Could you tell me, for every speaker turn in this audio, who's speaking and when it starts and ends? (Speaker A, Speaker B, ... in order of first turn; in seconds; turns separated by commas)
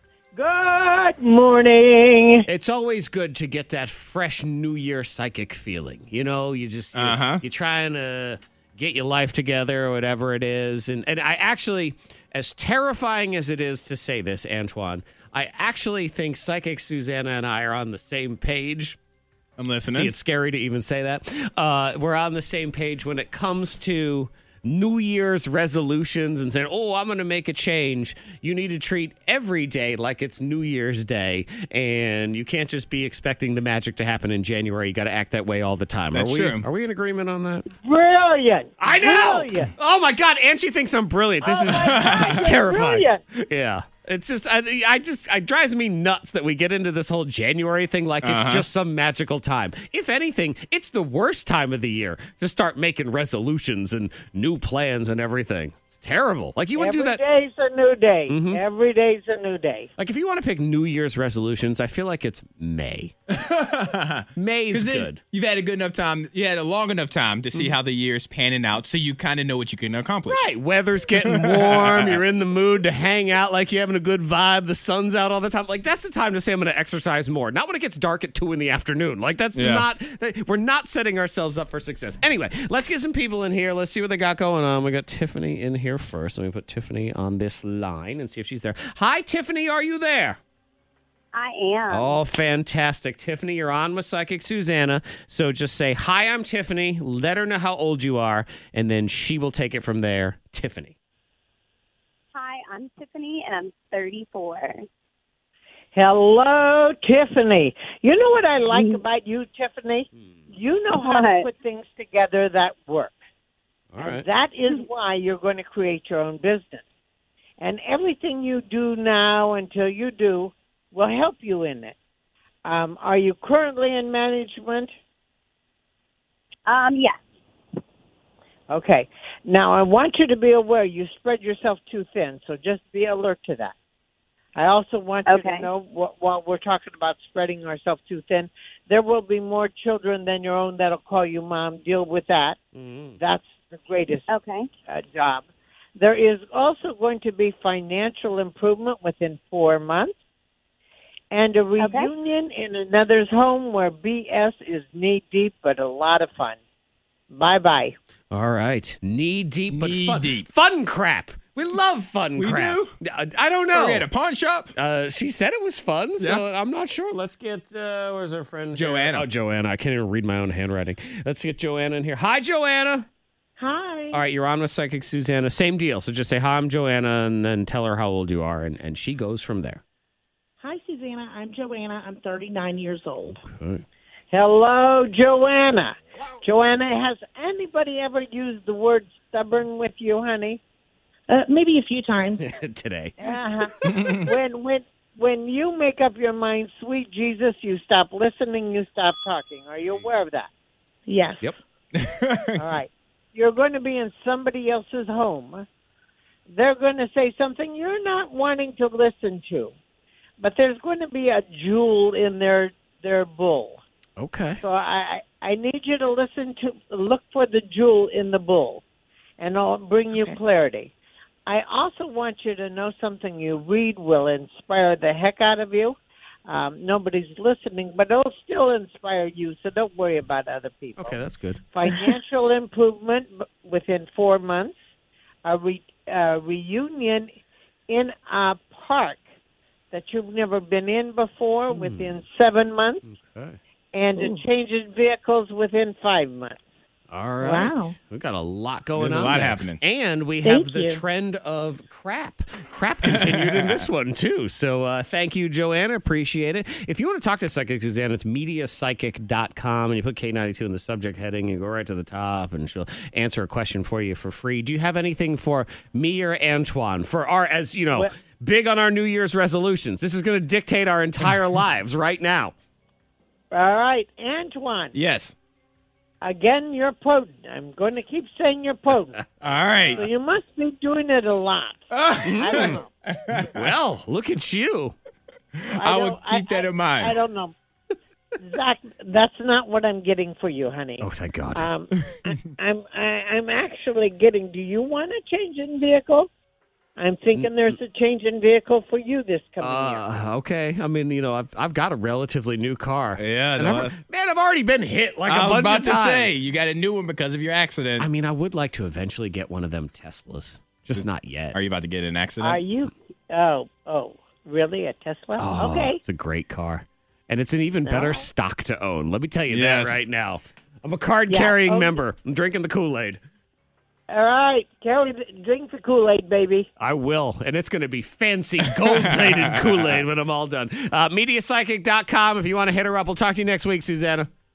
Speaker A: 0.3-2.5, Speaker B: 2.5-19.0, Speaker C: 6.9-7.4, Speaker C: 19.6-20.1, Speaker B: 19.8-37.7, Speaker C: 36.1-36.6, Speaker A: 37.8-39.7, Speaker B: 38.8-57.2, Speaker A: 41.4-43.2, Speaker C: 41.7-42.5, Speaker C: 48.2-48.7, Speaker A: 56.8-59.9, Speaker B: 58.3-58.6, Speaker B: 60.0-63.1, Speaker C: 63.4-70.4, Speaker B: 64.3-65.2, Speaker B: 70.3-90.4, Speaker C: 71.2-72.2, Speaker C: 79.5-79.9, Speaker D: 91.3-92.2, Speaker B: 91.9-100.9, Speaker D: 102.3-104.8, Speaker A: 105.9-113.1, Speaker D: 108.7-109.0, Speaker D: 111.0-111.4, Speaker B: 113.9-114.2, Speaker A: 114.0-116.8, Speaker A: 117.6-122.0, Speaker A: 122.7-124.9, Speaker D: 126.7-127.2, Speaker A: 128.7-133.7, Speaker A: 134.5-142.6, Speaker D: 135.2-135.7, Speaker B: 142.8-143.2, Speaker A: 143.2-144.3, Speaker D: 144.3-144.7, Speaker A: 144.9-150.2, Speaker A: 151.3-156.6, Speaker D: 151.8-152.1, Speaker A: 157.3-157.9, Speaker B: 158.3-164.1, Speaker C: 159.7-160.5, Speaker C: 162.3-162.9, Speaker C: 163.7-164.7, Speaker B: 164.8-173.1, Speaker C: 166.2-166.4, Speaker C: 168.7-169.3, Speaker E: 173.6-174.2, Speaker B: 174.1-179.8, Speaker E: 180.6-183.4, Speaker B: 183.4-183.8, Speaker A: 184.3-190.6, Speaker E: 191.3-192.4, Speaker B: 192.4-193.3, Speaker A: 193.2-200.5, Speaker C: 193.8-194.2, Speaker E: 201.1-201.5, Speaker C: 202.0-202.6, Speaker A: 202.6-205.7, Speaker A: 206.5-209.7, Speaker A: 210.4-213.8, Speaker B: 214.2-214.6, Speaker A: 214.6-218.8, Speaker A: 219.4-220.9, Speaker A: 221.4-231.2, Speaker B: 231.0-231.6, Speaker A: 231.7-234.8, Speaker A: 235.4-237.3, Speaker A: 237.9-239.2, Speaker A: 239.9-243.0, Speaker B: 241.7-242.2, Speaker B: 243.1-243.6, Speaker A: 243.9-246.6, Speaker E: 244.2-244.4, Speaker B: 247.1-272.5, Speaker E: 247.4-247.9, Speaker C: 249.0-249.8, Speaker E: 250.4-251.0, Speaker C: 253.1-253.8, Speaker A: 273.5-275.0, Speaker C: 274.9-275.3, Speaker A: 276.2-279.2, Speaker C: 279.4-280.1, Speaker A: 279.9-281.8, Speaker C: 281.9-283.7, Speaker B: 282.2-282.8, Speaker A: 282.3-282.9, Speaker B: 283.5-284.9, Speaker C: 285.7-287.2, Speaker A: 285.8-287.6, Speaker A: 288.4-296.3, Speaker B: 291.0-291.7, Speaker A: 297.0-300.1, Speaker B: 297.4-297.8, Speaker B: 299.6-306.3, Speaker C: 303.2-304.0, Speaker C: 305.3-308.1, Speaker B: 308.0-311.6, Speaker C: 310.9-312.6, Speaker A: 312.4-316.0, Speaker B: 315.4-323.2, Speaker A: 317.9-318.3, Speaker C: 319.5-320.0, Speaker A: 321.3-322.0, Speaker A: 324.1-326.7, Speaker B: 326.8-334.3, Speaker C: 329.2-330.0